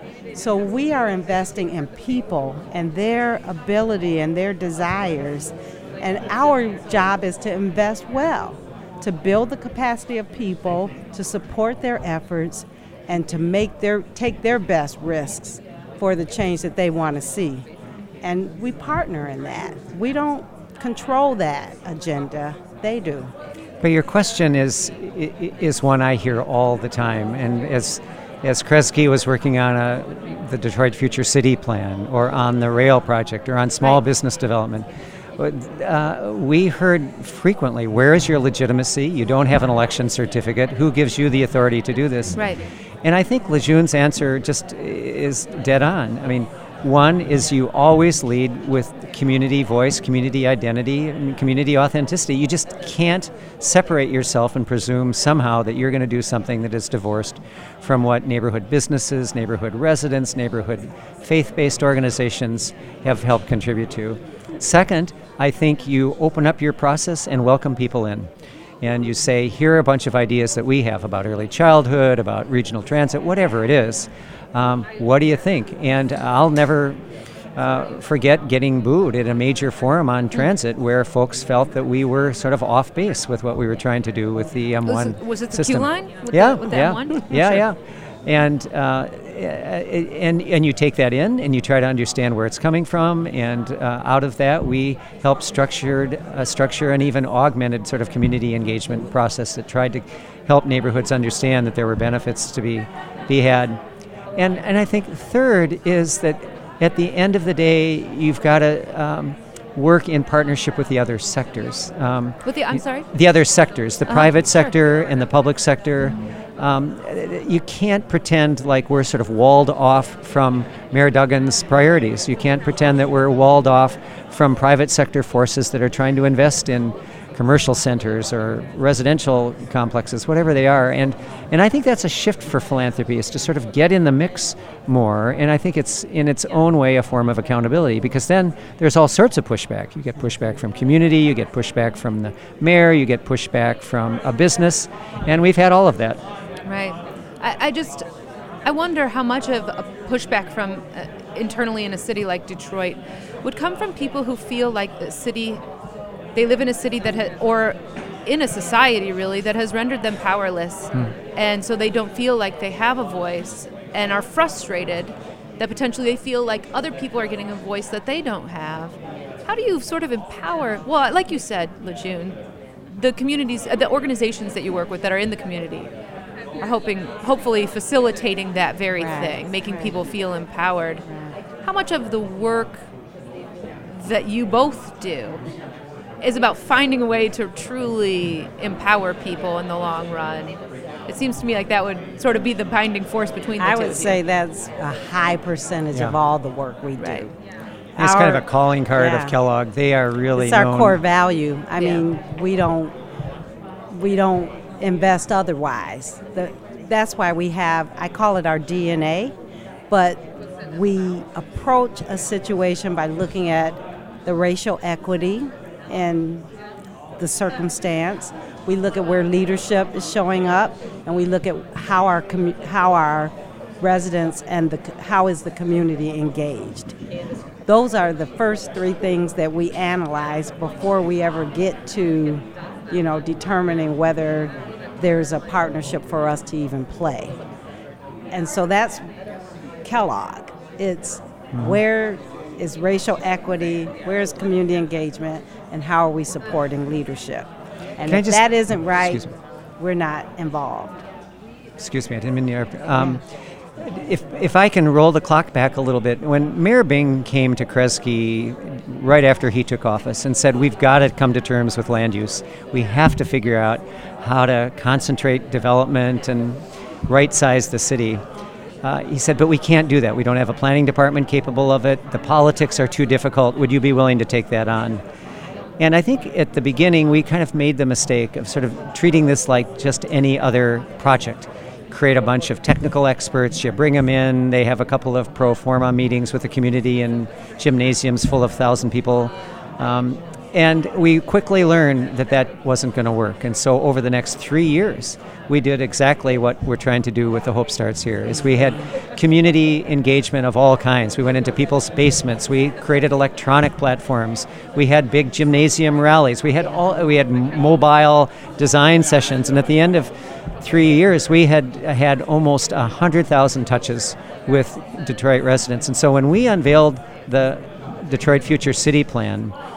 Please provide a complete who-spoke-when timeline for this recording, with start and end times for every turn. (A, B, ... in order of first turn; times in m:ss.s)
0:00.3-0:17.6 A
0:18.2-0:23.3 A
0:23.8-0:34.8 B
0:35.4-0:42.4 B
0:42.4-0:42.6 C
0:43.0-1:08.3 B
1:08.8-1:17.0 B
1:17.6-1:43.8 B
1:24.8-1:27.6 C
1:44.4-2:26.2 B
1:52.4-1:53.1 C
1:54.0-1:54.7 C
2:26.7-2:28.0 C
2:28.6-2:35.6 C
2:36.3-2:52.4 C
2:52.9-2:55.9 C
2:56.6-3:01.0 C
2:59.0-3:00.0 A
3:01.1-3:01.3 A
3:01.6-3:02.8 C
3:03.9-3:05.4 C
3:06.2-3:10.6 C
3:11.1-3:14.2 C
3:13.6-3:17.3 A
3:18.0-3:18.4 A
3:18.0-3:21.0 B
3:19.0-3:19.3 A
3:20.3-3:22.9 A
3:21.8-3:22.0 C
3:23.9-3:29.3 A
3:29.9-3:36.4 A
3:37.2-3:46.9 A
3:47.7-3:57.4 A
3:58.3-3:59.0 A
3:59.8-4:07.5 A
4:01.5-4:01.8 B
4:08.0-4:09.2 A
4:08.1-4:09.3 B
4:09.8-4:11.0 A
4:11.8-4:13.2 B
4:13.8-4:28.2 B
4:28.8-4:35.0 B
4:35.8-5:19.6 B